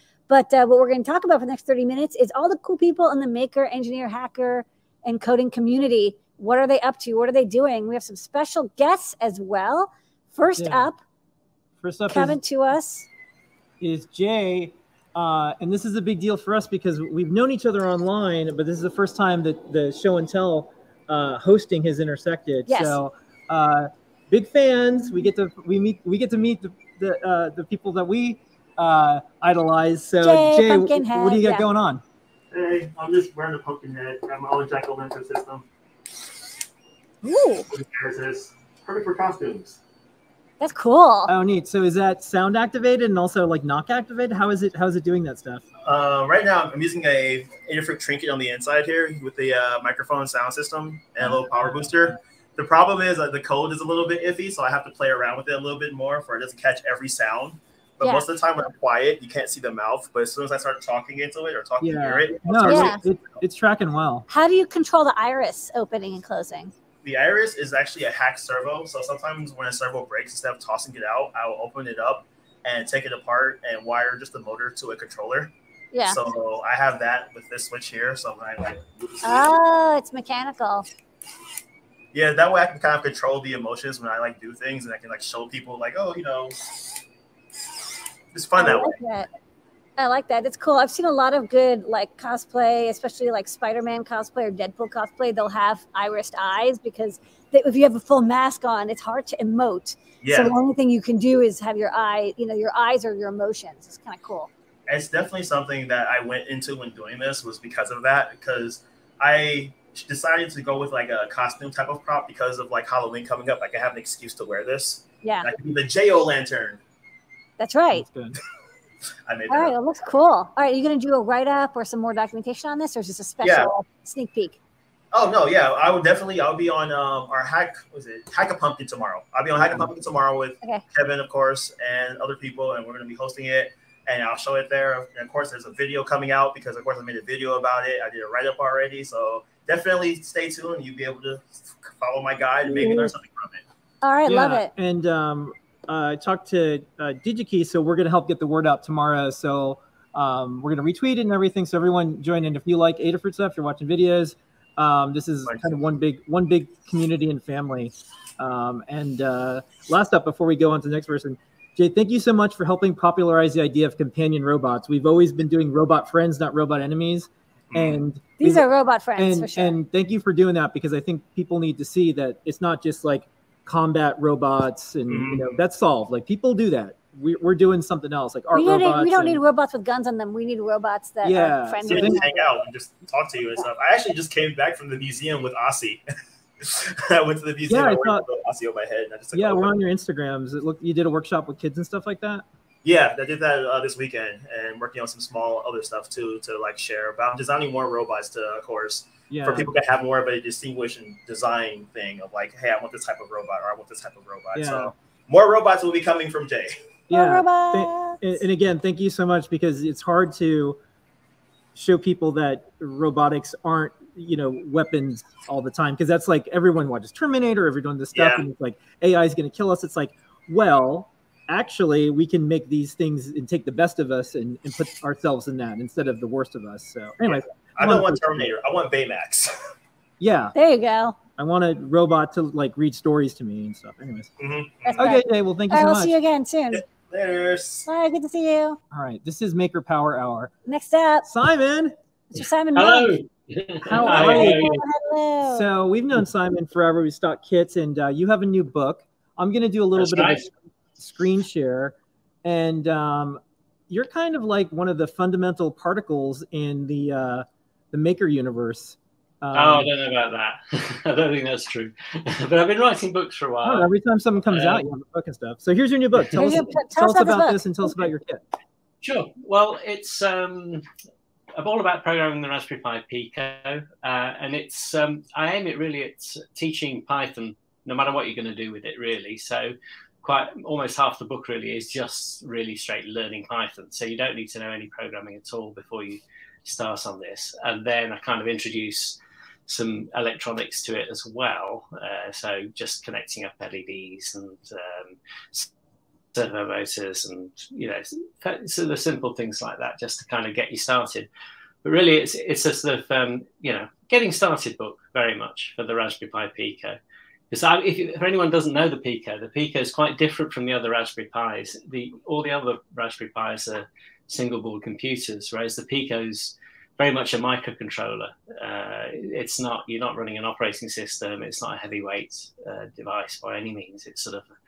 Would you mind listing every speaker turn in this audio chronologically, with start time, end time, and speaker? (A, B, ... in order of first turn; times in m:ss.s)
0:00.3-0:11.0 A
0:10.6-0:10.9 B
0:11.8-0:12.4 B
0:12.1-0:13.1 A
0:13.8-0:32.0 B
0:22.7-0:23.0 A
0:30.2-0:31.6 A
0:32.5-0:35.6 C
0:37.2-0:37.6 A
0:37.7-0:39.8 C
0:40.6-0:41.3 A
0:41.3-0:45.6 B
0:45.8-1:03.0 C
0:51.2-0:52.0 B
1:01.8-1:04.3 B
1:02.6-1:03.0 A
1:04.3-1:06.7 A
1:07.0-1:15.5 C
1:15.9-1:16.3 A
1:16.0-1:19.5 C
1:19.2-1:20.8 A
1:22.1-1:26.8 C
1:28.3-1:29.0 C
1:28.5-1:29.3 A
1:30.0-1:44.5 A
1:40.2-1:40.6 C
1:44.9-1:56.8 C
1:55.2-1:55.5 A
1:57.6-1:58.0 A
1:57.9-1:58.4 B
1:59.3-1:59.7 C
1:59.5-2:04.6 A
2:03.4-2:03.7 C
2:05.1-2:23.6 C
2:22.8-2:23.0 A
2:24.0-2:24.7 A
2:24.3-2:48.6 B
2:35.4-2:35.7 C
2:47.7-2:48.0 C
2:48.4-2:49.8 A
2:49.2-2:59.4 B
2:55.1-2:55.6 C
2:58.5-3:02.4 A
3:01.2-3:02.2 B
3:01.8-3:06.0 C
3:06.6-3:09.7 C
3:07.7-3:08.2 B
3:09.3-3:12.4 B
3:12.8-3:26.7 C
3:19.3-3:19.7 B
3:24.5-3:24.9 B
3:27.1-3:28.4 A
3:27.1-3:30.8 B
3:31.7-3:48.5 B
3:38.1-3:38.4 C
3:47.2-3:49.5 C
3:50.2-3:50.5 B
3:50.5-3:51.2 A
3:51.3-3:54.3 B
3:54.4-3:55.1 C
3:54.8-3:56.8 A
3:54.9-3:56.1 B
3:56.7-3:57.9 C
3:57.9-3:58.8 A
3:58.9-4:00.5 B
4:00.6-4:01.2 A
4:01.2-4:01.9 B
4:02.3-4:03.2 A
4:02.7-4:04.8 D
4:03.9-4:05.7 A
4:03.9-4:04.6 B
4:05.4-4:19.9 B
4:10.0-4:10.5 D
4:19.5-4:23.9 D
4:23.6-4:28.4 B
4:24.5-4:24.8 D
4:26.4-4:27.9 A
4:29.0-4:30.8 D
4:31.6-4:55.7 D
4:56.3-5:01.3 D
5:01.8-5:07.0 D
5:07.5-5:24.5 D